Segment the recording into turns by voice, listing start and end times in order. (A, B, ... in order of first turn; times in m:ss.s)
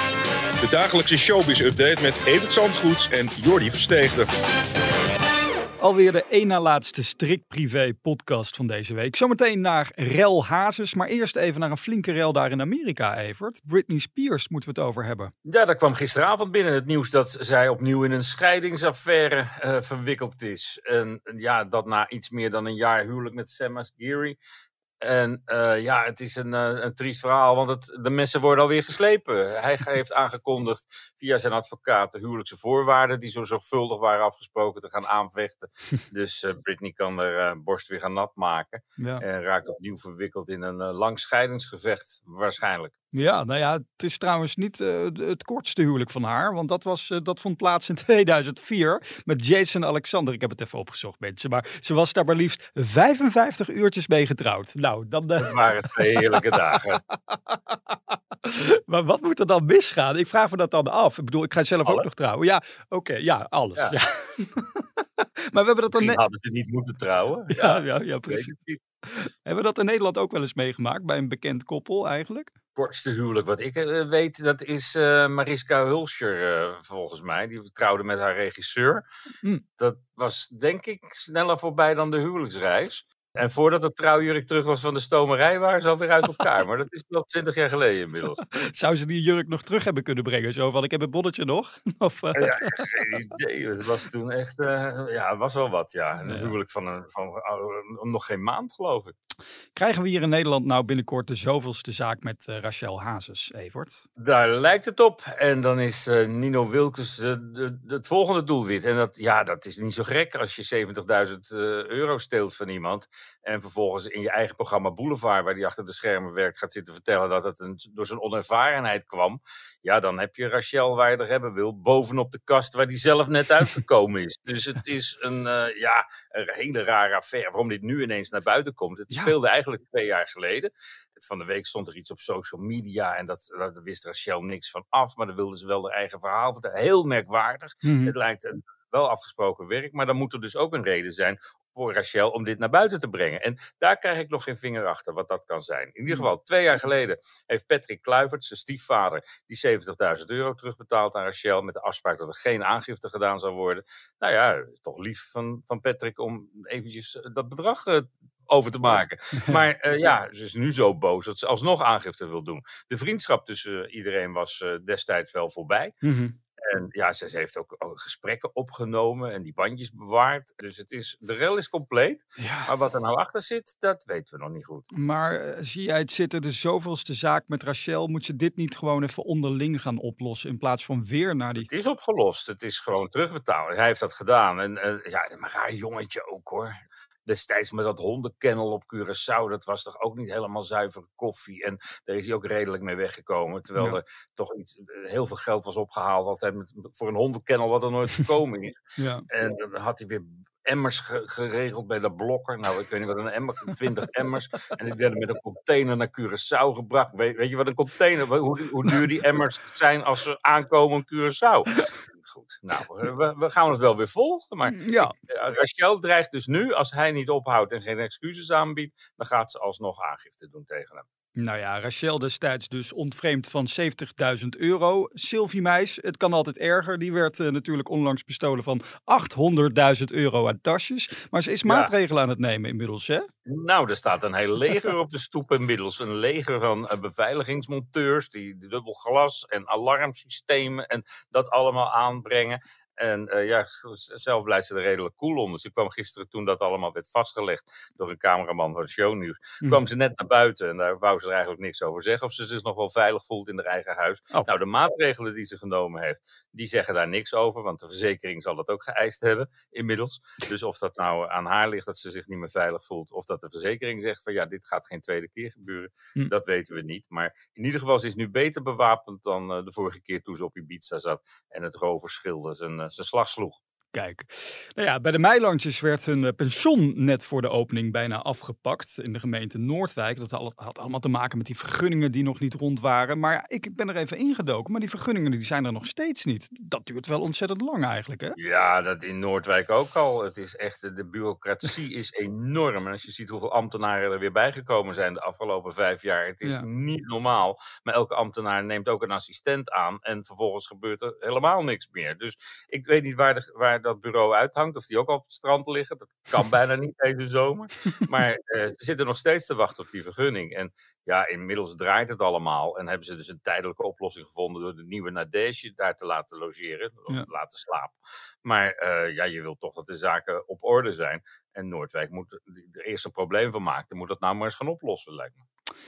0:00.6-0:04.3 A
0:05.8-0:15.3 B
0:15.5-0:24.4 C
0:25.0-0:42.9 C
0:39.0-0:39.2 B
0:43.1-1:04.8 B
0:55.4-0:57.0 C
1:05.5-1:06.2 B
1:05.9-1:08.8 C
1:07.5-1:08.5 B
1:09.1-1:12.5 B
1:12.8-1:19.0 C
1:19.8-1:28.4 C
1:28.4-1:32.9 B
1:32.4-1:39.1 C
1:36.2-1:36.5 B
1:39.7-1:44.0 B
1:44.2-2:46.0 C
2:17.8-2:18.2 B
2:46.0-2:46.4 B
2:46.6-2:54.9 C
2:52.4-2:52.7 B
2:54.9-3:01.7 B
3:01.6-3:06.8 C
3:07.3-3:18.8 C
3:19.0-3:19.2 B
3:19.3-3:41.0 C
3:34.7-3:35.1 B
3:41.4-3:53.2 B
3:51.7-3:51.9 C
3:53.5-4:33.6 C
4:33.9-4:48.4 B
4:48.4-5:25.4 C